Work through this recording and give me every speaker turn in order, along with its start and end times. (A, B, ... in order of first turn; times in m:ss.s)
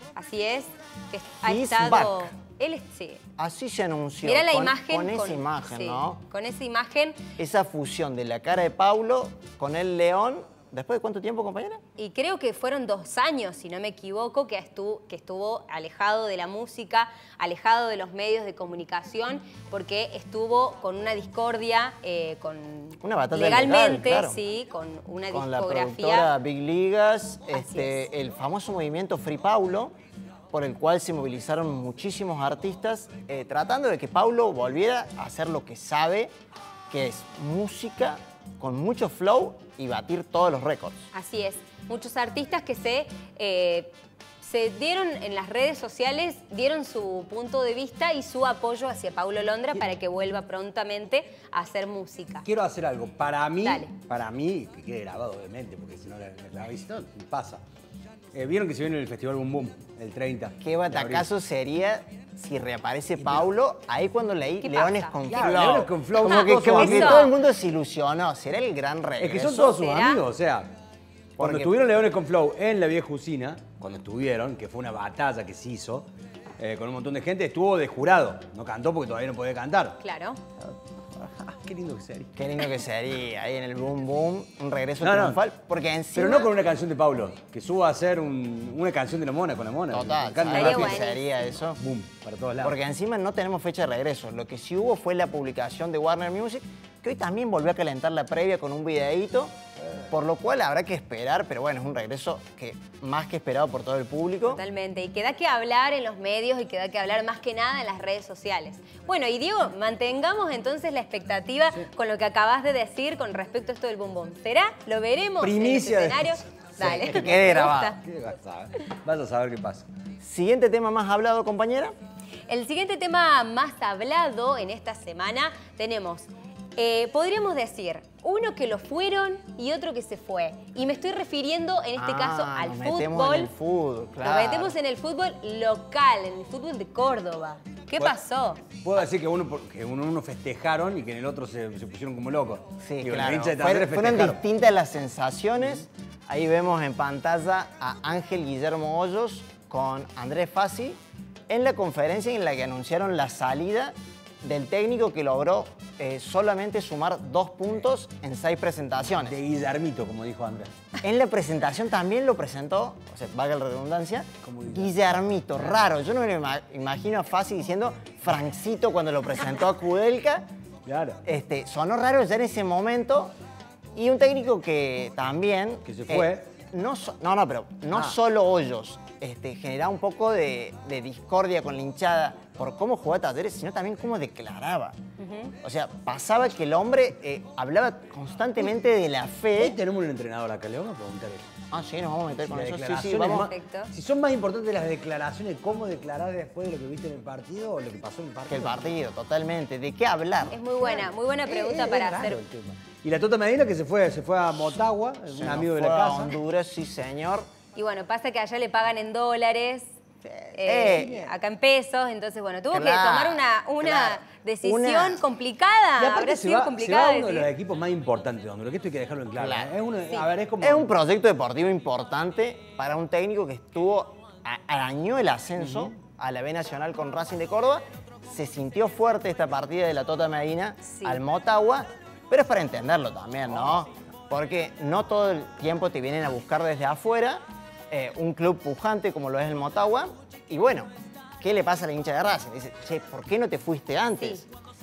0:00.1-0:03.2 A
0:01.4-0:02.3 B
0:03.4-0:06.2 B
0:04.2-0:07.3 A
0:07.4-0:11.8 B
0:12.0-0:26.3 A
0:23.0-0:24.4 B
0:25.3-0:29.9 B
0:27.5-0:28.0 A
0:30.5-0:36.3 B
0:36.9-0:41.1 B
0:41.1-0:52.4 A
0:52.4-0:57.6 C
0:53.6-0:53.9 A
0:58.3-1:01.3 C
1:00.6-1:09.8 B
1:04.6-1:05.2 A
1:05.3-1:07.3 C
1:06.2-1:07.3 A
1:09.2-1:10.7 C
1:09.6-1:10.2 A
1:11.4-1:11.7 B
1:11.4-1:16.1 C
1:16.6-1:20.0 C
1:20.0-1:20.4 A
1:20.6-1:22.3 C
1:22.4-1:26.5 B
1:25.0-1:25.4 C
1:26.1-1:32.8 C
1:29.9-1:31.8 B
1:30.5-1:31.2 A
1:32.6-1:39.5 B
1:40.1-1:44.6 B
1:44.4-1:58.0 A
1:55.4-1:59.9 C
1:56.8-1:58.0 B
2:00.2-2:01.9 B
2:02.5-2:13.5 A
2:12.0-2:14.8 B
2:14.2-2:18.6 A
2:18.8-2:24.4 C
2:22.8-2:39.4 B
2:39.1-2:40.7 C
2:41.0-2:50.4 B
2:44.4-2:44.9 C
2:50.8-2:51.2 C
2:51.2-2:53.3 B
2:53.9-3:05.0 B
2:55.8-2:56.4 C
3:05.2-3:05.5 A
3:05.6-3:09.8 B
3:09.5-3:11.5 C
3:11.7-3:13.5 B
3:12.3-3:18.9 C
3:13.3-3:13.9 A
3:18.5-3:20.6 B
3:20.5-3:22.4 A
3:20.8-3:26.3 C
3:25.3-3:27.5 B
3:27.7-3:29.9 A
3:30.3-3:31.3 C
3:30.5-3:37.5 A
3:30.6-3:31.3 B
3:32.7-3:35.2 B
3:36.0-3:40.9 C
3:39.3-3:39.7 B
3:40.6-4:04.5 B
3:45.6-3:45.9 C
3:50.9-3:51.2 A